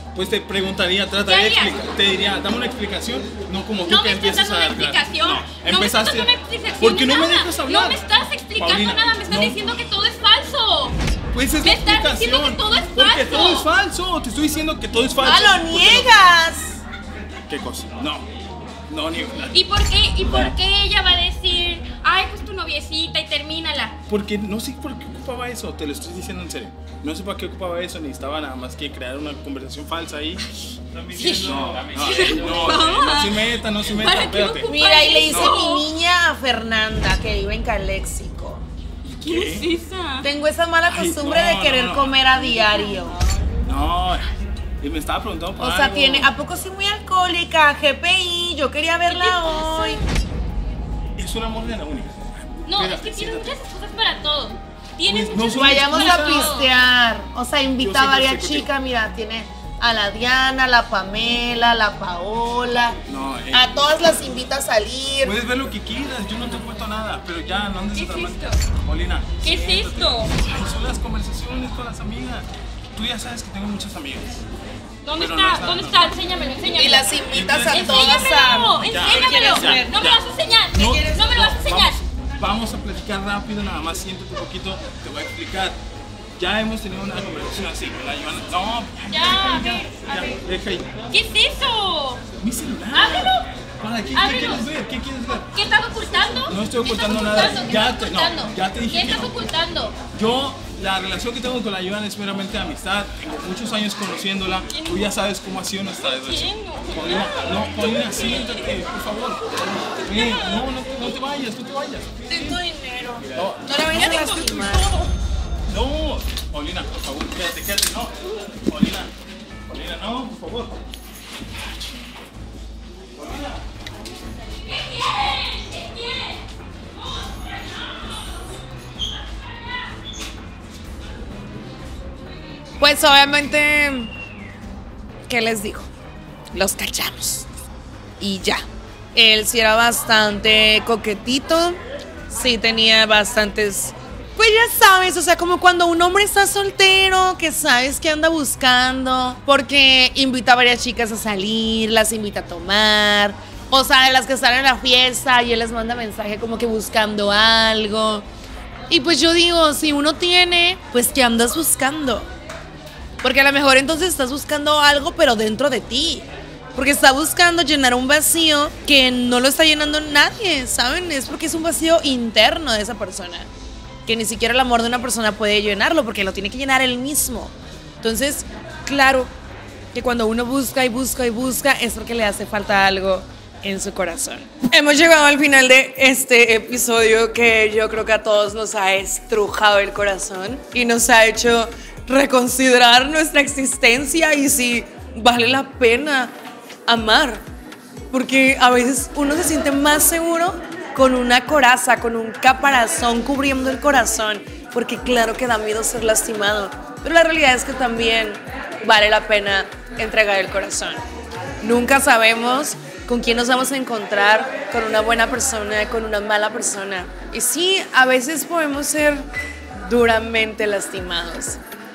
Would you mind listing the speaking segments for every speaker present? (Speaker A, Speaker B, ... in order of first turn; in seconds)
Speaker A: 0.1-8.0, 8.6-9.6, 11.3-16.2, 17.5-18.2, 18.9-19.6, 20.2-20.5, 24.1-30.4, 31.0-35.7, 39.2-39.7, 40.9-42.2, 43.6-46.3, 51.2-53.5, 55.0-56.7, 57.8-58.7, 63.1-63.7, 65.2-74.4, 75.2-76.1, 77.3-85.8, 86.4-91.0, 92.4-95.5, 96.5-99.4, 100.1-109.4, 110.0-112.6, 113.3-114.4, 115.7-118.2, 118.7-119.1, 119.7-120.8, 123.1-123.6
Speaker B: 1.2-1.8, 3.9-11.0, 11.6-13.7, 19.5-24.0, 31.1-35.9, 39.1-40.3, 42.3-43.2, 49.1-50.1, 52.7-56.9, 68.0-68.6, 69.4-70.3, 75.0-82.0, 89.1-90.4, 91.1-92.2, 92.9-93.5, 94.1-94.7, 95.3-100.0, 104.7-105.1, 106.0-108.7, 110.2-110.6, 113.9-115.0, 125.0-126.2
Speaker C: 15.2-16.8, 34.7-38.6, 40.2-43.1, 45.6-50.0, 55.5-63.0, 63.5-65.4, 76.8-80.0, 80.8-81.6, 112.3-115.1, 132.8-134.1, 135.3-135.9, 136.5-137.5, 138.2-141.8, 142.3-158.3, 158.9-162.3, 163.2-173.5, 174.1-179.3, 179.9-196.3, 196.9-197.4, 198.1-211.0, 211.6-219.3, 219.8-221.6